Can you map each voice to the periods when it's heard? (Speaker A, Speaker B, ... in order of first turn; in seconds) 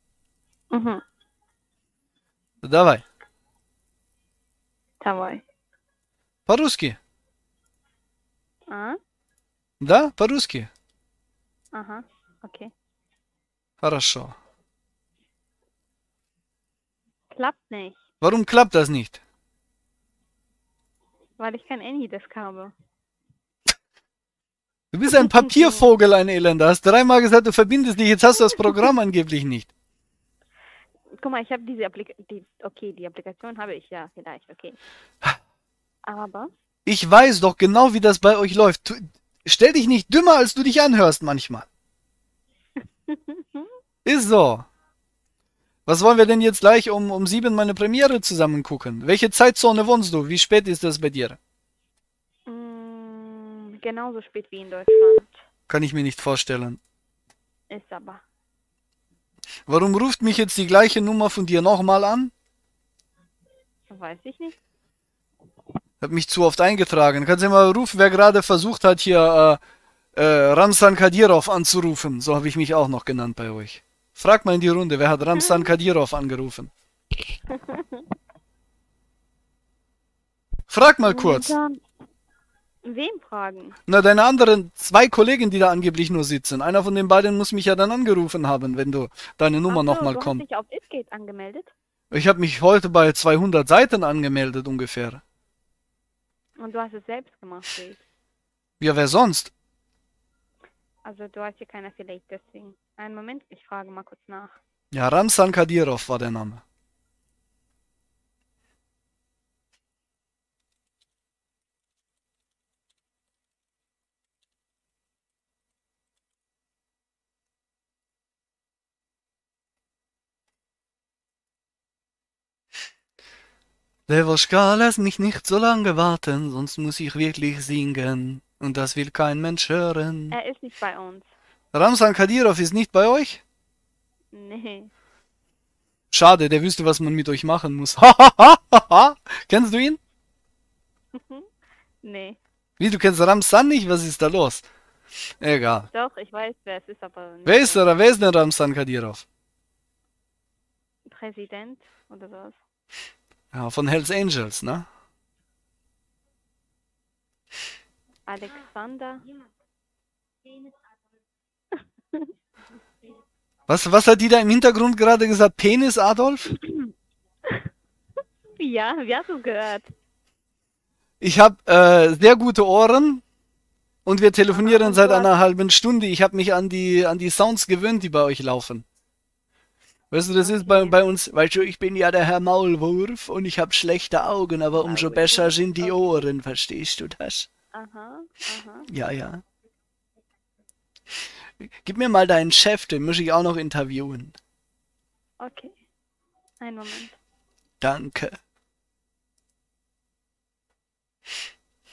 Speaker A: 0.7-1.0, 5.0-5.4, 8.7-9.0, 11.7-12.7, 17.3-18.0, 21.4-22.7, 25.2-25.8, 31.2-34.8, 36.0-36.5, 43.1-43.7, 52.5-55.3, 57.7-58.2, 63.9-64.6, 77.6-77.8, 81.0-81.8, 82.8-83.8, 89.7-91.7, 96.6-98.0, 101.0-104.6, 130.3-131.3, 134.3-134.9, 141.1-141.5, 142.0-142.4, 145.9-147.9, 151.1-152.6, 158.3-159.2, 168.6-169.9, 174.6-175.3, 180.4-181.0, 184.8-185.5, 187.7-188.9, 195.4-195.8, 196.6-197.2
Speaker B: 2.6-3.0, 6.5-7.0, 9.8-10.7, 13.8-14.4, 18.2-19.2, 24.9-29.7, 36.9-41.7, 44.0-44.7, 45.9-51.4, 55.7-56.8, 59.7-62.3, 66.0-69.6, 70.2-76.7, 80.7-81.6, 83.9-90.4, 92.1-95.2, 98.8-99.5, 104.9-106.6, 124.1-130.4, 131.7-133.4, 136.1-140.0, 142.8-144.7, 145.4-145.9, 147.5-149.2, 153.5-154.9, 163.7-166.6, 171.2-173.2, 174.1-178.9, 180.1-187.5, 188.9-189.4, 191.8-194.4, 197.8-198.4